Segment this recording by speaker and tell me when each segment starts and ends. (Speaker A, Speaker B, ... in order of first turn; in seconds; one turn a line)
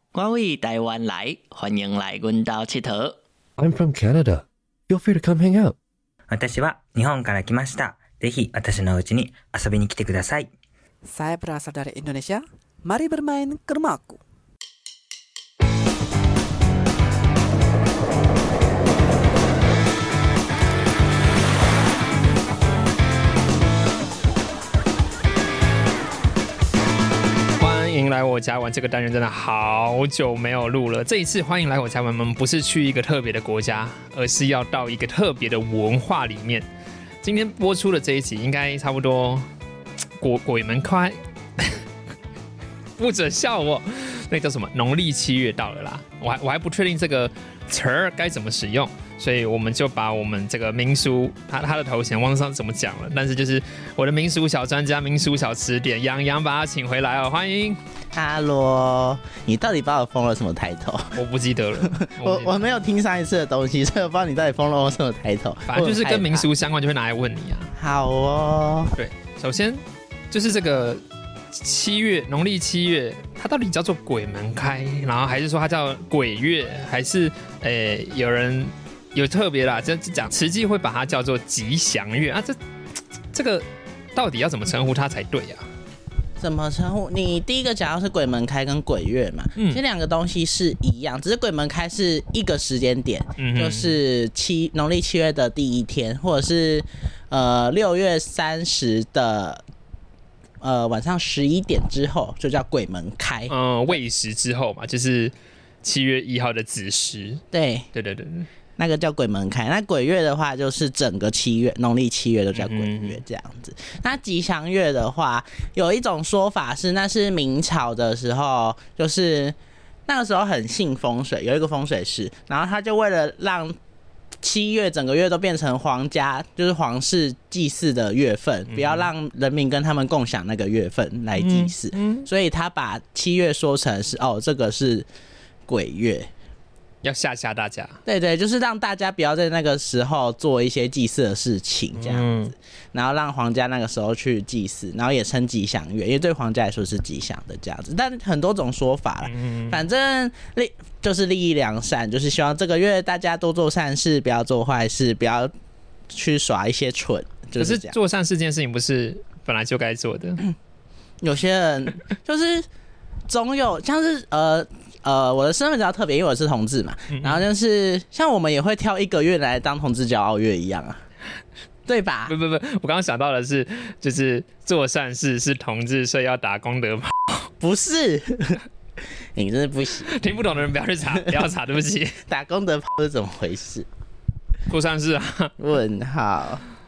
Speaker A: 0.1-3.2
Speaker B: 3.6-5.8
Speaker C: 6.3-10.5
Speaker D: 11.1-14.2
Speaker E: 27.6-36.6
Speaker E: 37.2-39.5
Speaker E: 40.2-41.8
Speaker E: 43.0-57.8
Speaker F: 58.1-61.1
Speaker E: 61.1-62.6
Speaker F: 61.8-66.5
Speaker E: 65.7-67.7
Speaker F: 67.8-68.9
Speaker E: 69.0-71.0
Speaker E: 71.5-82.5
Speaker E: 83.3-83.6
Speaker E: 84.2-85.7
Speaker F: 86.4-99.6
Speaker E: 93.3-94.0
Speaker F: 100.6-104.0
Speaker E: 103.5-108.5
Speaker F: 107.5-107.9
Speaker F: 108.8-119.5
Speaker E: 112.5-113.2
Speaker F: 120.1-123.7
Speaker F: 124.4-135.1
Speaker E: 128.7-129.1
Speaker E: 131.3-132.3
Speaker F: 135.7-136.3
Speaker E: 137.0-138.0
Speaker F: 138.1-155.5
Speaker E: 142.0-142.5
Speaker E: 149.2-149.8
Speaker F: 156.1-157.9
Speaker E: 157.6-160.4
Speaker F: 161.2-162.7
Speaker F: 163.3-171.0
Speaker E: 167.1-167.4
Speaker F: 171.8-172.3
Speaker E: 172.3-177.5
Speaker F: 177.6-178.6
Speaker F: 179.3-180.1
Speaker E: 180.0-182.2
Speaker F: 182.3-183.8
Speaker E: 184.7-185.5
Speaker F: 185.6-186.6